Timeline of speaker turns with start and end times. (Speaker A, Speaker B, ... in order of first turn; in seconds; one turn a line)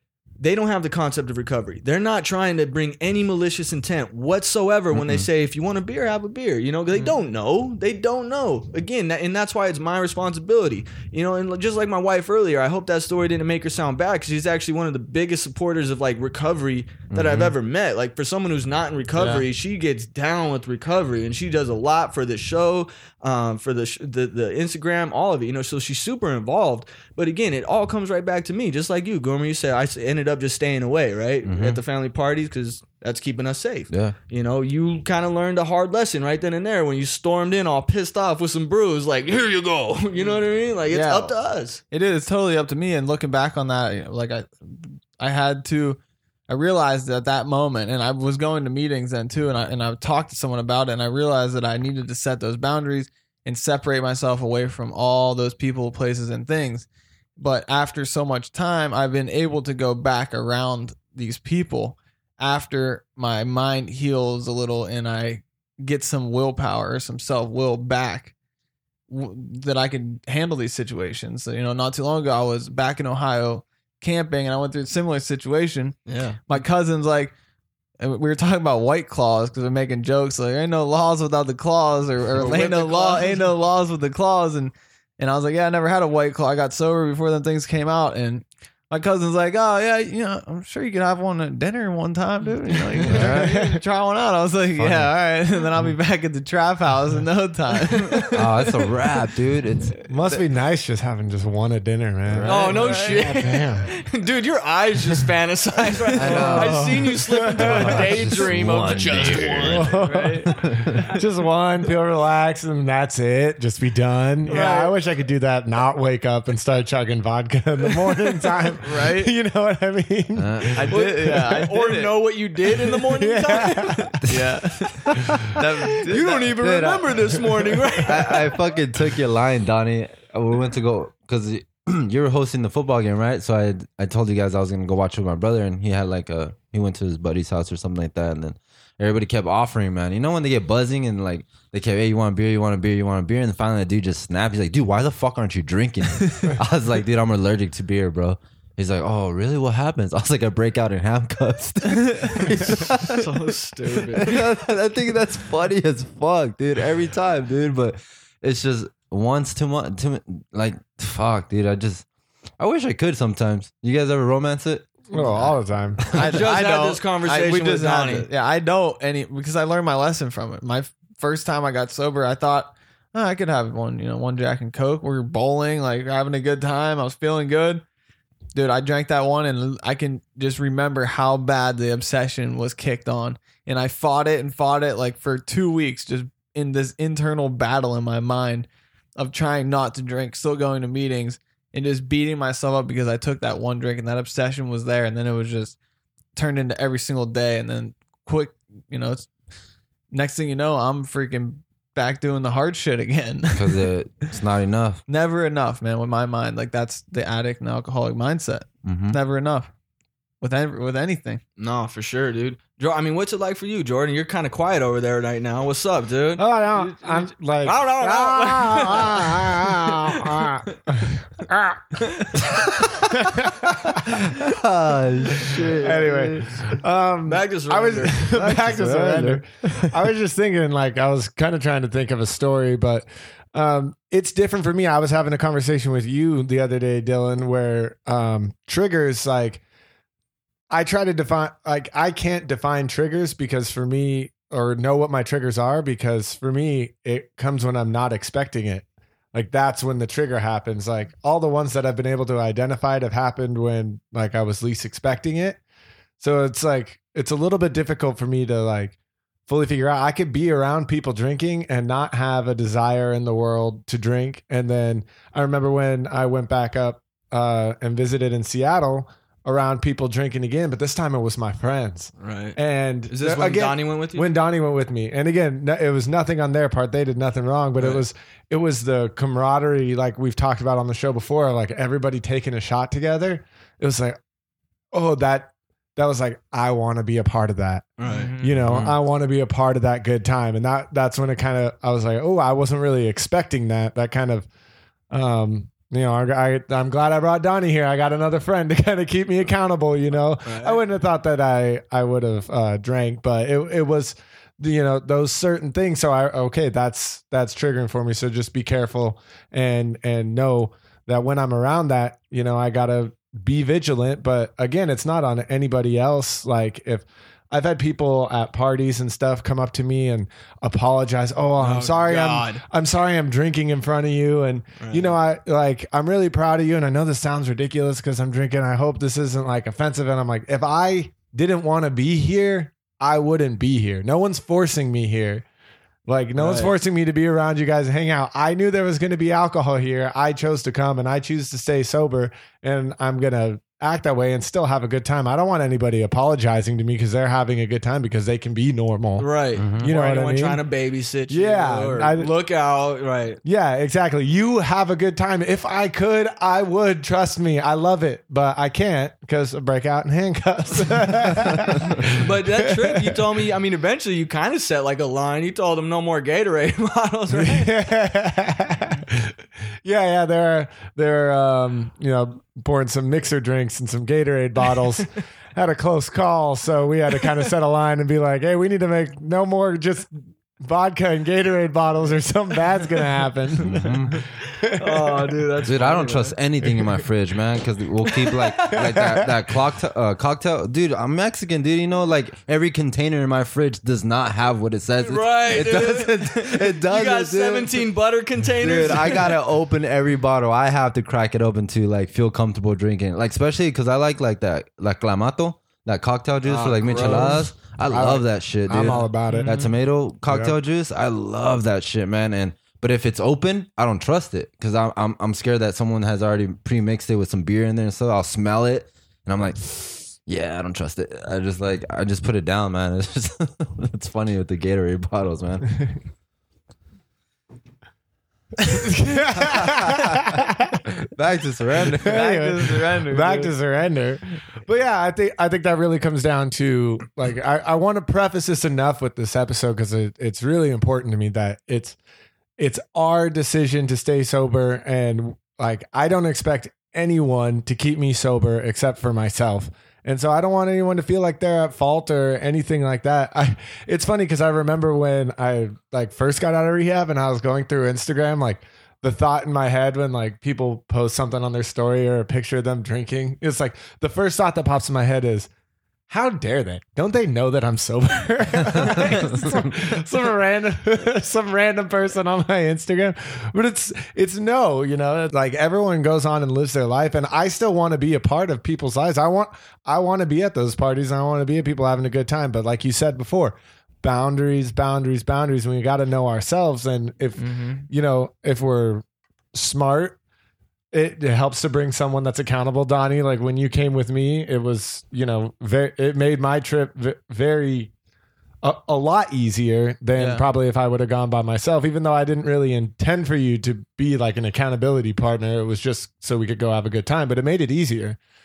Speaker A: 0.4-41.8
Speaker B: 4.9-5.3
Speaker B: 17.1-17.5
Speaker C: 19.1-19.4
Speaker B: 31.4-31.8
Speaker B: 33.9-34.1
Speaker C: 40.9-41.3
Speaker C: 41.9-68.3
Speaker C: 69.1-77.3
Speaker A: 76.1-76.5
Speaker C: 78.0-98.4
Speaker A: 82.4-83.5
Speaker B: 93.0-93.6
Speaker D: 93.1-93.8
Speaker B: 94.8-95.1
Speaker A: 98.1-98.3
Speaker B: 98.3-99.9
Speaker D: 100.1-103.9
Speaker B: 102.3-102.6
Speaker A: 102.5-109.9
Speaker C: 102.6-103.3
Speaker D: 106.1-108.5
Speaker B: 106.2-107.0
Speaker B: 107.6-109.9
Speaker D: 109.4-121.3
Speaker C: 109.8-110.5
Speaker B: 110.5-111.0
Speaker A: 114.5-114.9
Speaker C: 114.5-114.8
Speaker C: 118.8-119.3
Speaker B: 120.4-120.8
Speaker C: 120.7-122.1
Speaker A: 120.9-124.2
Speaker D: 123.0-124.2
Speaker C: 124.3-126.5
Speaker B: 125.0-125.3
Speaker A: 126.1-128.6
Speaker B: 126.6-127.2
Speaker B: 128.0-153.5
Speaker A: 152.7-154.4
Speaker B: 154.1-162.1
Speaker B: 162.6-166.4
Speaker D: 165.1-166.0
Speaker C: 166.1-177.8
Speaker A: 166.1-168.3
Speaker C: 178.5-195.8
Speaker C: 196.3-199.3
Speaker C: 200.1-203.8
Speaker B: 203.5-205.0
Speaker C: 205.1-209.7
Speaker B: 208.8-209.2
Speaker C: 210.4-211.4
Speaker A: 211.6-220.5
Speaker D: 216.4-222.0
Speaker B: 222.8-223.1
Speaker D: 223.3-223.7
Speaker B: 223.6-226.6
Speaker A: 225.8-226.1
Speaker D: 225.8-239.6
Speaker A: 227.2-228.8
Speaker B: 228.3-229.9
Speaker D: 240.7-255.6
Speaker D: 256.2-284.2
Speaker A: 272.2-272.6
Speaker A: 273.1-274.3
Speaker D: 284.9-294.5
Speaker A: 288.0-288.3
Speaker C: 288.1-288.6
Speaker B: 288.7-288.9
Speaker D: 295.1-335.4
Speaker A: 300.4-300.8
Speaker A: 321.6-322.6
Speaker A: 324.8-325.1
Speaker D: 336.1-350.6
Speaker A: 336.4-336.8
Speaker A: 349.2-353.4
Speaker B: 349.6-349.9
Speaker D: 351.3-352.3
Speaker D: 353.4-363.2
Speaker A: 362.1-367.8
Speaker D: 367.3-383.9
Speaker B: 383.7-384.1
Speaker D: 384.6-385.3
Speaker A: 384.7-386.4
Speaker B: 385.6-397.8
Speaker A: 388.2-388.8
Speaker D: 388.8-389.2
Speaker A: 395.0-399.4
Speaker B: 398.6-425.8
Speaker A: 406.4-407.5
Speaker D: 407.0-409.6
Speaker A: 408.8-409.0
Speaker C: 409.3-409.7
Speaker D: 410.3-410.6
Speaker D: 428.6-430.8
Speaker B: 429.4-430.4
Speaker B: 431.0-432.3
Speaker D: 431.9-442.0
Speaker C: 432.1-433.5
Speaker D: 442.6-465.5
Speaker D: 466.1-490.2
Speaker B: 468.7-469.7
Speaker C: 487.4-487.9
Speaker D: 490.9-497.9
Speaker D: 498.6-508.2
Speaker C: 500.1-500.5